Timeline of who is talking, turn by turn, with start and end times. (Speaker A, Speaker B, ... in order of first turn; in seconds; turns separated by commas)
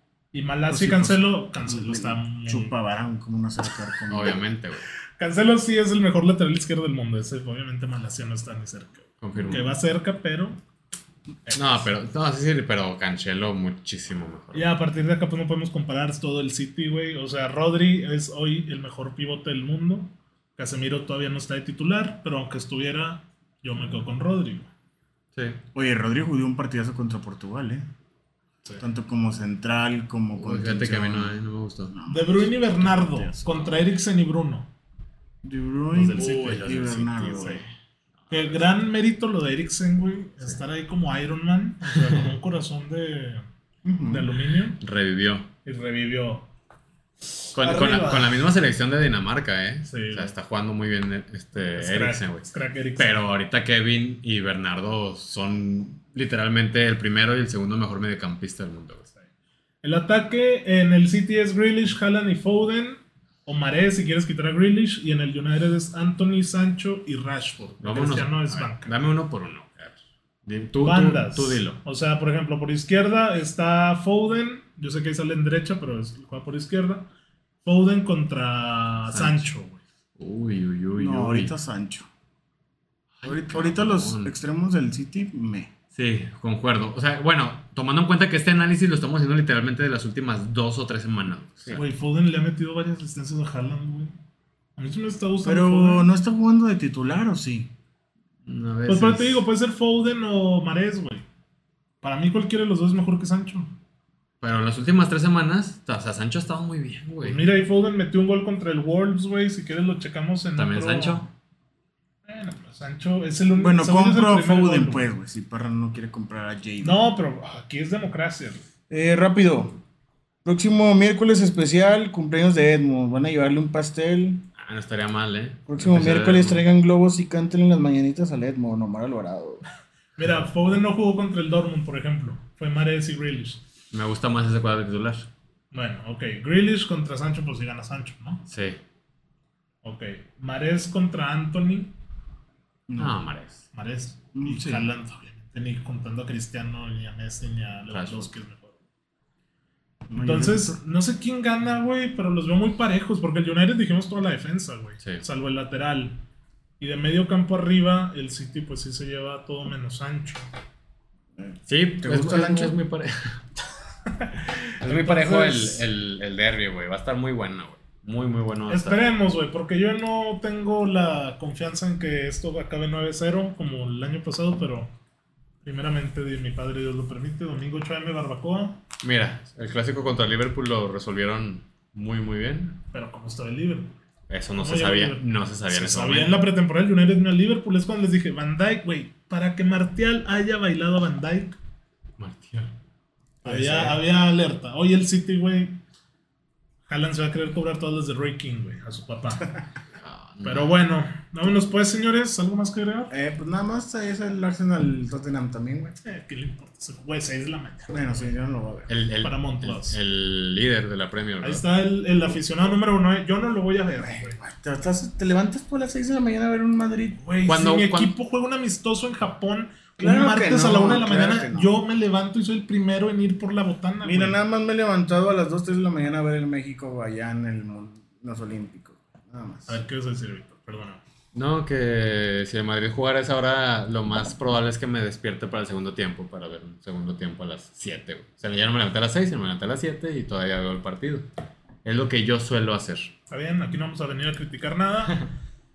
Speaker A: 0.3-2.7, Speaker B: 0.7-4.4, Speaker C: 4.1-4.8, Speaker A: 5.2-10.6, Speaker C: 9.2-9.7, Speaker A: 11.5-11.8, Speaker C: 11.5-14.8, Speaker A: 14.5-24.7, Speaker C: 25.3-25.6, Speaker B: 25.7-27.8, Speaker B: 28.8-31.4, Speaker C: 30.4-31.9, Speaker B: 31.9-33.7, Speaker A: 32.1-34.7, Speaker B: 35.4-37.6, Speaker A: 35.9-36.8, Speaker C: 36.1-37.7, Speaker A: 37.3-37.6, Speaker C: 38.3-38.6, Speaker A: 38.3-43.4, Speaker B: 43.8-44.3, Speaker A: 44.1-44.8, Speaker C: 44.8-45.5, Speaker A: 45.6-46.5, Speaker A: 47.3-48.5, Speaker C: 47.5-59.1, Speaker A: 49.8-50.3, Speaker A: 51.5-53.2, Speaker A: 59.8-69.0, Speaker C: 67.8-71.8, Speaker A: 70.8-77.1, Speaker A: 77.6-79.8, Speaker C: 79.1-79.5, Speaker C: 80.2-81.5, Speaker B: 81.0-82.1, Speaker C: 83.2-84.3, Speaker B: 83.2-85.7, Speaker C: 85.9-91.8, Speaker A: 91.7-94.2, Speaker A: 94.8-96.1, Speaker B: 95.4-97.7, Speaker C: 98.5-99.4, Speaker A: 98.8-101.2, Speaker A: 102.0-103.7, Speaker C: 104.4-107.5, Speaker A: 107.2-111.3, Speaker C: 110.6-111.3, Speaker A: 112.2-115.1, Speaker B: 113.5-117.0, Speaker A: 116.8-118.6, Speaker B: 118.9-119.8, Speaker B: 120.4-124.5, Speaker C: 124.6-126.6, Speaker B: 125.7-129.6, Speaker A: 130.2-133.6, Speaker C: 133.9-135.3, Speaker A: 135.7-138.4, Speaker C: 138.5-138.8, Speaker A: 139.8-141.9, Speaker B: 142.9-143.2, Speaker C: 143.0-143.6, Speaker A: 143.7-148.8, Speaker B: 144.3-144.9, Speaker C: 147.9-148.3, Speaker B: 150.1-150.8, Speaker A: 150.1-156.2, Speaker A: 156.8-160.4, Speaker B: 161.4-162.8, Speaker C: 161.7-163.4, Speaker A: 164.1-165.8, Speaker C: 164.8-169.1, Speaker A: 168.7-174.9, Speaker A: 175.6-178.8, Speaker C: 179.0-182.8, Speaker A: 182.9-183.9, Speaker C: 184.3-186.4, Speaker A: 184.6-191.6, Speaker C: 192.2-192.7, Speaker A: 193.4-195.8, Speaker B: 193.5-193.9, Speaker A: 196.9-199.6, Speaker C: 200.0-200.8, Speaker A: 200.4-203.1, Speaker B: 203.1-206.0, Speaker A: 206.0-208.3, Speaker B: 207.9-208.9, Speaker C: 208.9-211.6, Speaker A: 209.2-210.0, Speaker A: 211.4-214.4, Speaker B: 213.9-217.2, Speaker A: 217.2-224.4, Speaker C: 217.4-218.1, Speaker B: 220.0-221.7, Speaker B: 224.0-229.8, Speaker A: 229.7-231.0, Speaker C: 231.3-241.3, Speaker C: 241.8-243.1, Speaker A: 243.3-245.2